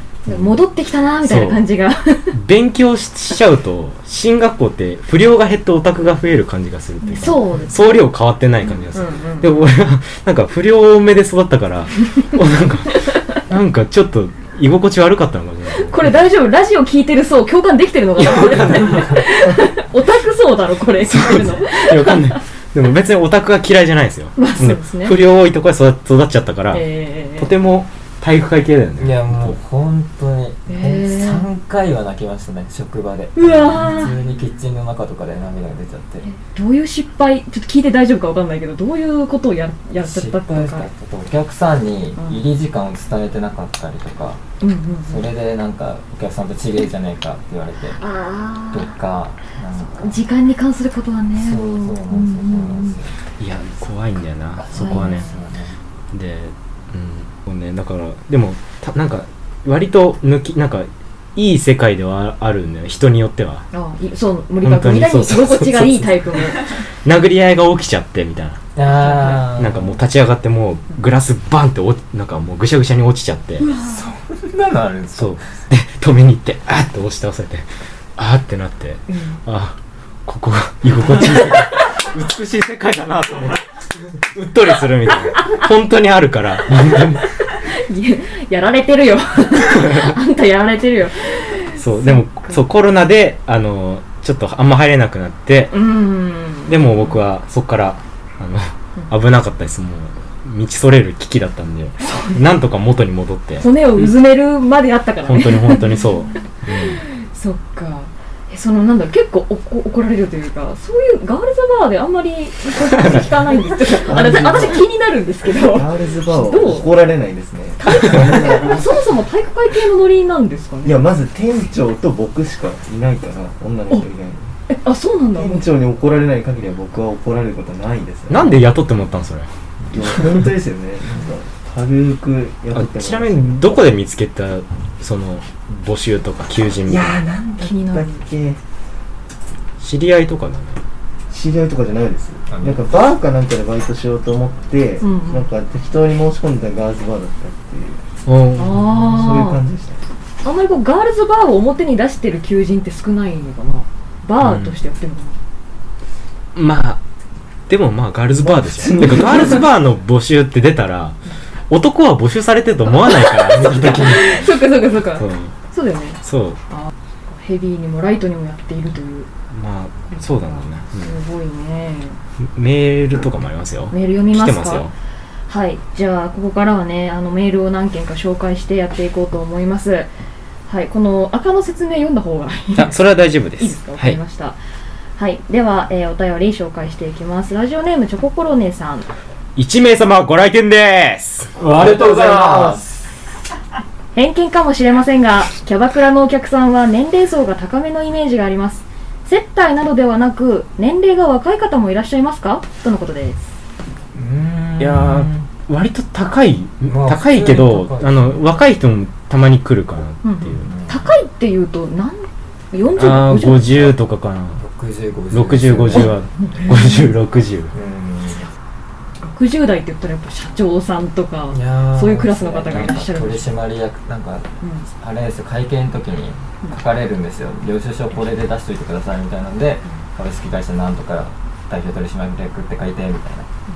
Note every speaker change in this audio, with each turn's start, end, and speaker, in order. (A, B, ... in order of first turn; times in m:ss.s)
0:00.3-0:02.4 A
0:01.2-0:01.6 B
0:02.3-0:16.1 B
0:07.1-0:08.0 A
0:08.9-0:09.6 A
0:15.7-0:22.4 A
0:18.2-0:19.1 B
0:21.0-0:26.9 B
0:24.4-0:25.2 A
0:26.7-0:27.5 A
0:27.4-0:29.6 B
0:29.0-0:36.3 C
0:30.7-0:31.5 A
0:33.4-0:34.2 A
0:36.2-0:40.9 A
0:40.0-0:44.4 C
0:44.6-0:45.3 A
0:45.1-0:48.0 C
0:48.0-0:48.9 A
0:48.7-0:50.2 C
0:49.9-0:53.0 A
0:51.4-0:53.2 C
0:53.4-0:55.3 B
0:54.7-0:55.8 C
0:54.7-0:55.3 A
0:56.1-1:03.7 B
1:03.7-1:06.8 A
1:04.6-1:13.7 B
1:08.8-1:10.0 C
1:13.6-1:14.0 A
1:13.8-1:15.5 C
1:15.2-1:23.6 B
1:19.1-1:19.4 A
1:24.2-1:27.3 B
1:27.5-1:32.6 A
1:31.8-1:35.8 B
1:35.7-1:37.2 A
1:36.7-1:43.7 B
1:42.0-1:42.4 A
1:43.6-1:46.1 A
1:45.2-1:47.0 B
1:46.7-1:56.9 A
1:53.0-1:53.2 B
1:53.9-1:54.9 D
1:55.5-1:59.0 D
1:57.8-2:01.0 A
2:00.8-2:04.5 D
2:04.7-2:05.7 A
2:05.4-2:08.6 D
2:08.3-2:09.5 B
2:09.9-2:13.7 D
2:12.7-2:17.2 B
2:16.8-2:18.6 D
2:17.6-2:18.2 A
2:19.8-2:20.8 B
2:21.3-2:28.0 D
2:22.5-2:22.9 C
2:25.0-2:25.5 A
2:28.3-2:28.9 B
2:28.6-2:29.6 A
2:28.9-2:30.0 D
2:30.4-2:35.4 A
2:34.4-2:34.8 B
2:36.6-2:37.0 B
2:37.7-2:41.2 B
2:38.4-2:39.7 D
2:41.7-2:44.5 B
2:43.1-2:49.3 A
2:45.2-2:45.5 B
2:46.2-2:46.6 B
2:49.5-2:51.1 B
2:50.9-2:52.2 A
2:52.5-2:54.9 B
2:53.9-2:54.9 A
2:55.5-3:00.1 A
3:00.7-3:04.6 A
3:02.8-3:04.2 B
3:05.2-3:09.1 A
3:09.6-3:11.5 B
3:11.6-3:13.0 C
3:11.7-3:12.8 D
3:14.2-3:23.4 A
3:24.1-3:25.5 C
3:24.8-3:30.7 B
3:26.8-3:28.6 C
3:30.2-3:33.9 A
3:30.6-3:31.1 C
3:33.0-3:34.6 B
3:34.6-3:36.2 C
3:35.3-3:37.7 B
3:36.4-3:37.1 A
3:37.7-3:38.5 C
3:39.2-3:43.5 A
3:41.5-3:53.5 C
3:44.6-3:44.9 A